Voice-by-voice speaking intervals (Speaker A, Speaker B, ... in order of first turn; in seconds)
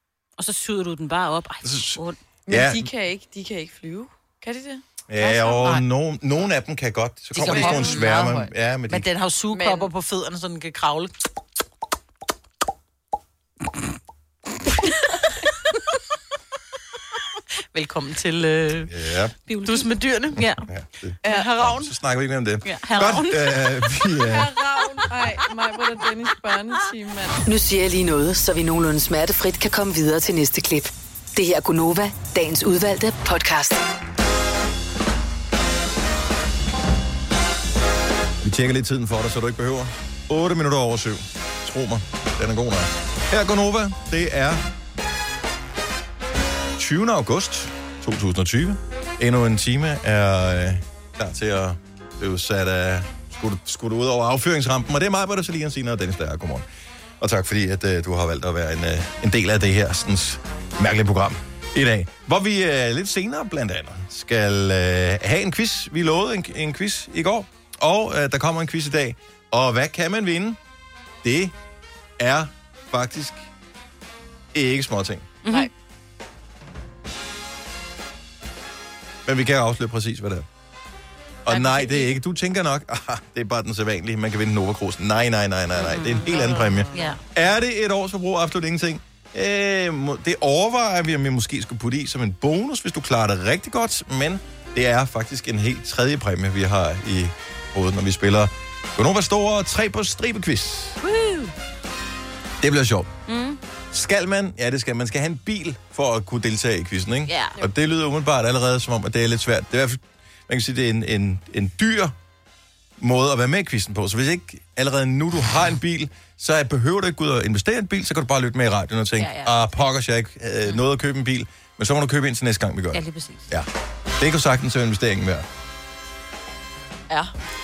Speaker A: 0.4-2.2, 19.5-20.6, 22.7-23.6, 86.9-87.2, 101.0-101.5, 103.3-103.6, 107.3-107.6, 119.2-119.6, 122.9-123.5
Speaker B: 1.6-2.9, 5.1-9.1, 18.9-19.4, 20.4-24.5, 38.4-44.6, 46.8-56.7, 57.2-70.6, 71.2-71.5, 72.2-73.5, 74.5-75.3, 79.3-80.5, 81.5-101.0, 102.6-103.1, 103.9-112.1, 113.0-125.5
Speaker C: 2.5-5.7, 7.5-8.1, 9.5-9.9, 21.2-21.5, 24.4-27.4
Speaker D: 7.3-11.1, 17.7-18.9, 19.6-20.4, 21.2-21.9, 81.5-81.8
Speaker E: 27.5-33.8